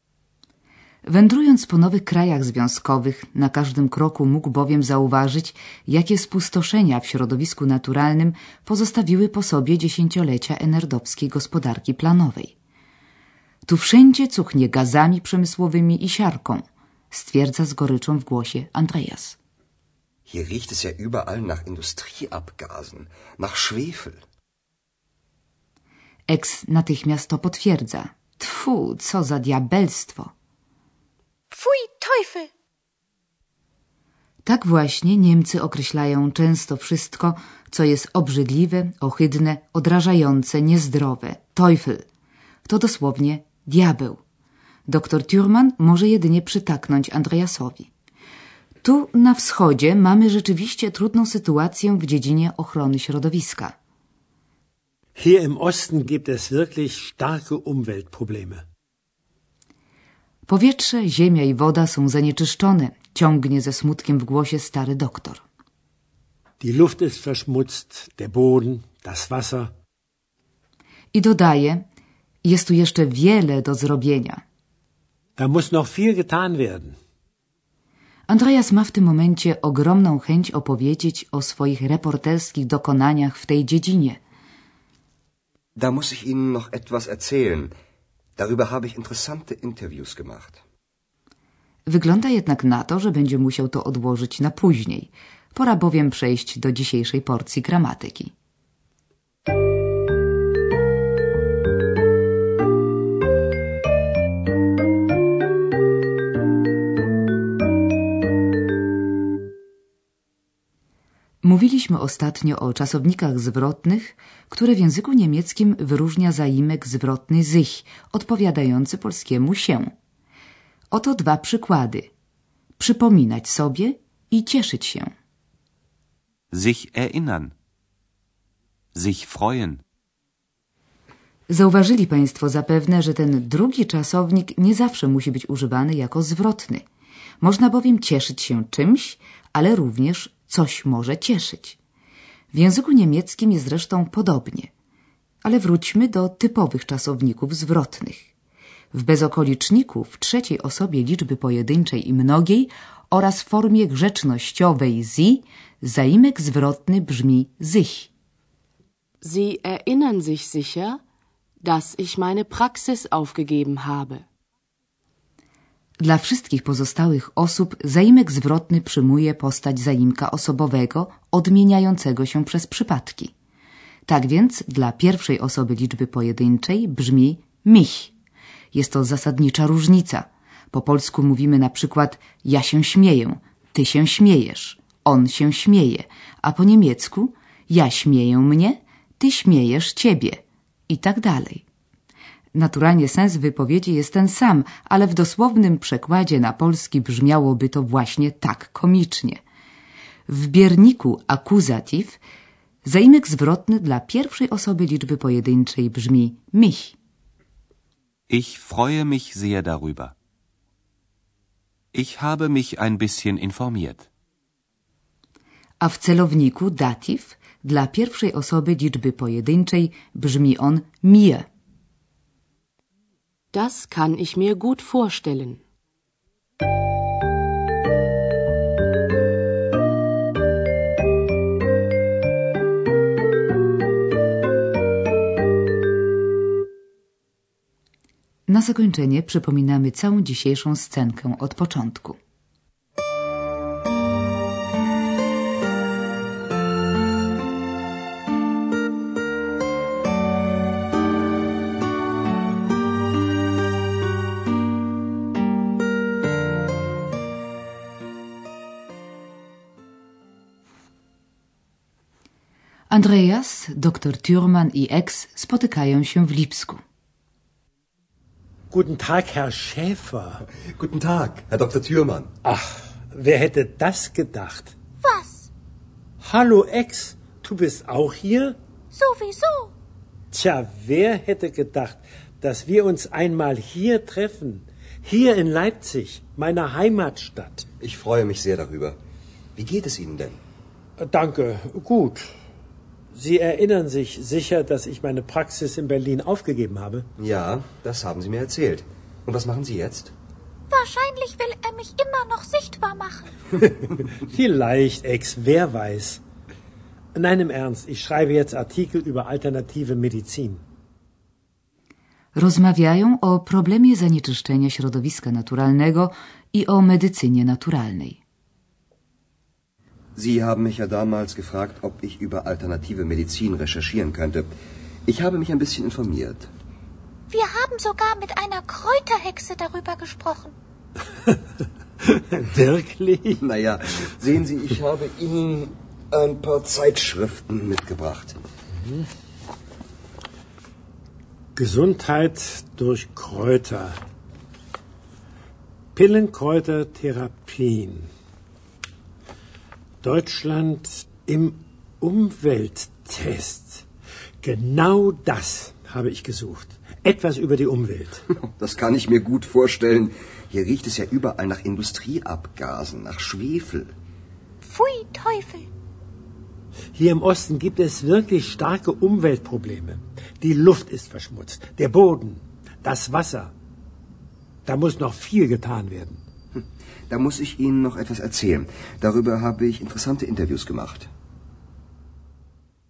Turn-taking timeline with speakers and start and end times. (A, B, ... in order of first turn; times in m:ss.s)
0:01.0-0:12.5 A
0:13.6-0:19.4 A
0:20.3-0:24.2 B
0:26.3-0:30.3 A
0:31.5-0:32.5 C
0:34.4-0:42.0 A
0:42.6-0:44.2 A
0:44.9-0:47.9 A
0:48.8-0:53.7 A
0:55.1-0:58.6 D
1:00.5-1:05.4 A
1:06.6-1:09.7 D
1:11.1-1:11.8 A
1:12.4-1:14.4 A
1:15.4-1:17.0 D
1:18.3-1:24.2 A
1:25.8-1:27.7 B
1:28.4-1:30.6 B
1:31.8-1:38.3 A
1:51.4-1:59.9 A
2:00.9-2:02.1 A
2:02.8-2:05.1 A
2:06.5-2:07.5 E
2:08.9-2:09.8 E
2:11.5-2:16.8 A
2:17.4-2:21.8 A
2:22.5-2:24.7 A
2:25.4-2:28.3 A
2:28.9-2:38.1 A
2:39.2-2:41.0 F
2:41.6-2:44.2 F
2:46.0-2:53.3 A
2:54.1-2:58.1 A
2:58.7-3:11.6 A
3:12.5-3:19.4 A
3:20.3-3:22.2 A
3:22.8-3:27.0 A
3:28.3-3:30.1 E
3:31.9-3:34.1 E
3:35.8-3:41.5 A
3:43.5-3:45.6 F
3:58.5-4:02.2 A
4:22.9-4:26.8 A
4:28.7-4:30.4 D
4:30.7-4:32.3 B
4:32.4-4:34.7 D
4:35.0-4:35.5 C
4:36.2-4:38.6 D
4:38.9-4:39.7 C
4:40.3-4:47.7 D
4:47.8-4:49.0 B
4:49.6-4:50.4 B
4:51.0-4:52.3 D
4:53.1-4:57.1 D
4:57.2-5:00.1 B
5:00.7-5:03.3 C
5:04.2-5:06.2 D
5:07.1-5:10.6 D
5:12.3-5:18.2 A
5:20.2-5:24.5 B
5:25.0-5:26.5 B
5:27.3-5:30.5 C
5:32.0-5:33.4 D
5:33.4-5:38.4 B
5:38.7-5:39.1 D
5:41.6-5:44.0 D
5:45.9-5:48.1 D
5:50.0-5:53.8 D
5:54.4-5:58.2 D
5:58.3-6:03.9 B
6:04.6-6:05.7 C
6:06.9-6:13.5 D
6:14.6-6:16.2 D
6:16.5-6:21.1 B